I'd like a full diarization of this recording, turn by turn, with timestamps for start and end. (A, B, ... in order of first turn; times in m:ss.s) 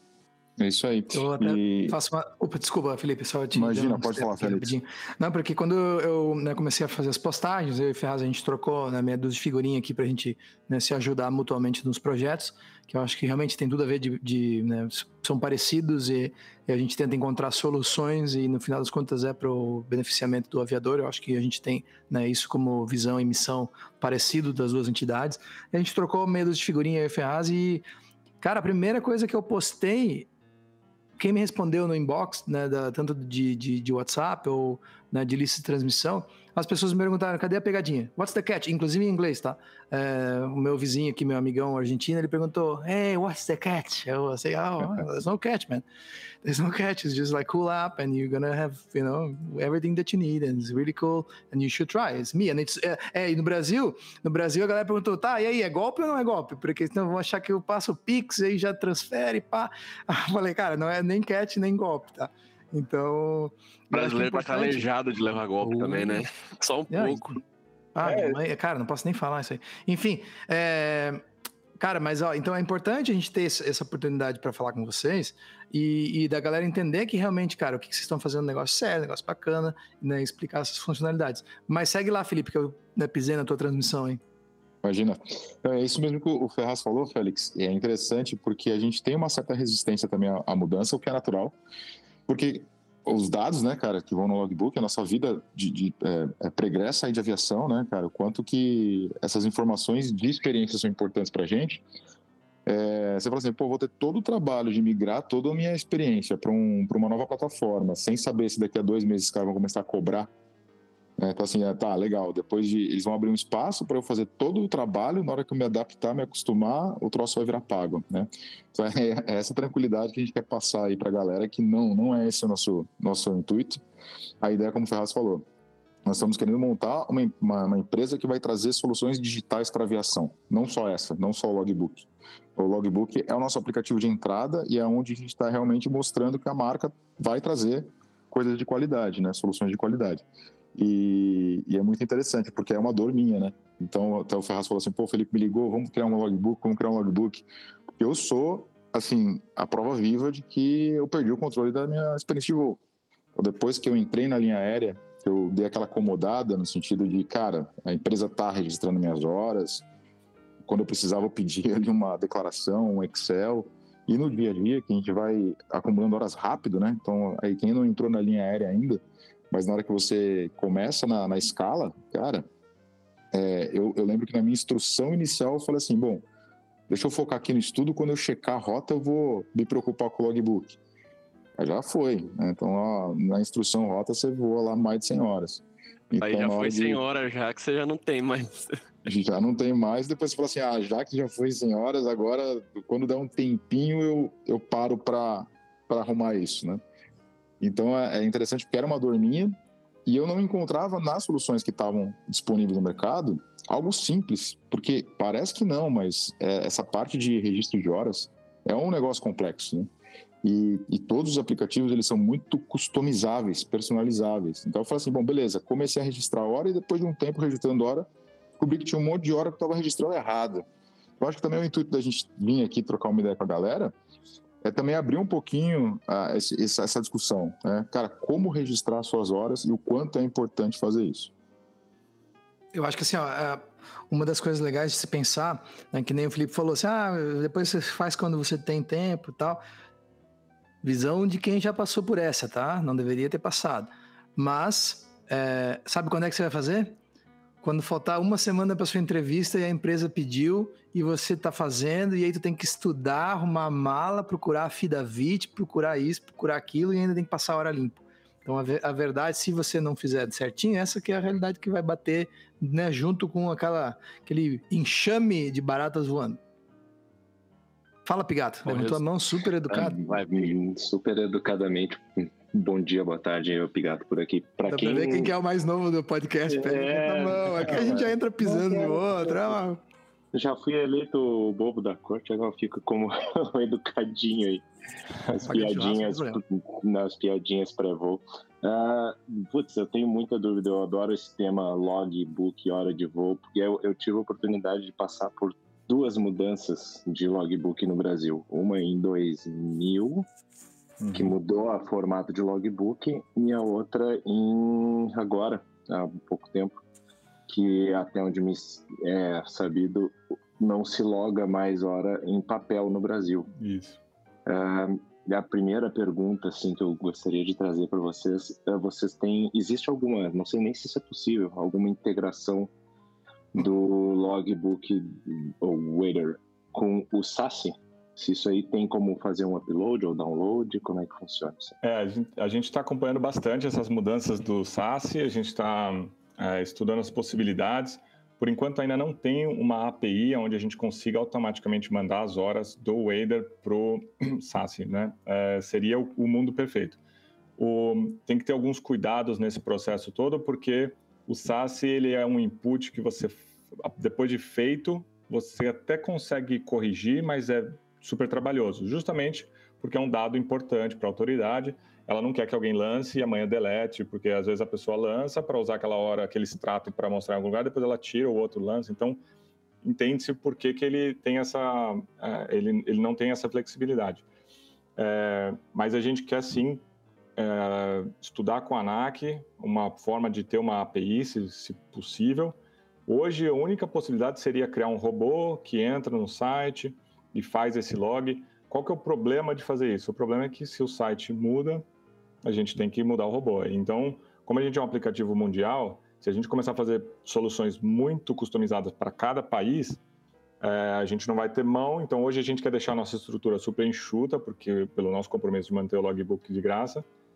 0:00.6-0:02.0 A
0:01.1-0:27.8 B
0:03.5-0:04.8 A
0:28.4-0:30.3 B
0:31.2-0:45.8 B
0:46.4-1:04.9 B
1:03.9-1:07.4 C
1:05.6-1:06.2 B
1:06.9-1:07.4 B
1:07.9-1:11.2 B
1:08.0-1:08.4 D
1:11.8-1:24.2 B
1:24.8-1:31.6 A
1:32.3-1:41.8 A
1:42.6-1:50.3 A
1:51.2-2:03.8 A
2:04.4-2:05.4 A
2:06.0-2:27.4 A
2:28.0-2:32.8 A
2:33.3-2:39.8 A
2:40.6-2:52.5 A
2:53.3-2:56.2 A
2:56.9-3:00.8 A
3:01.6-3:07.0 A
3:06.2-3:08.7 C
3:09.0-3:16.8 A
3:17.6-3:29.9 A
3:30.4-3:38.1 A
3:38.6-3:40.6 A
3:41.2-3:43.9 A
3:44.6-3:51.3 A
3:52.7-3:59.6 B
4:00.8-4:07.0 B
4:07.6-4:26.4 B
4:28.0-4:30.0 B
4:28.7-4:29.0 E
4:29.7-4:35.3 E
4:34.7-4:39.8 B
4:36.5-4:39.6 E
4:40.3-4:44.6 E
4:45.2-5:00.2 E
4:45.4-4:46.4 B
5:01.0-5:01.3 D
5:01.1-5:06.8 E
5:07.5-5:13.5 E
5:13.6-5:14.0 D
5:14.5-5:22.7 E
5:23.5-5:31.8 E
5:31.8-5:47.0 D
5:47.6-6:09.2 D
6:09.8-6:14.2 D
6:15.0-6:16.8 D
6:17.4-6:22.6 D
6:23.1-6:31.8 D
6:32.4-6:40.0 D
6:40.6-6:47.0 D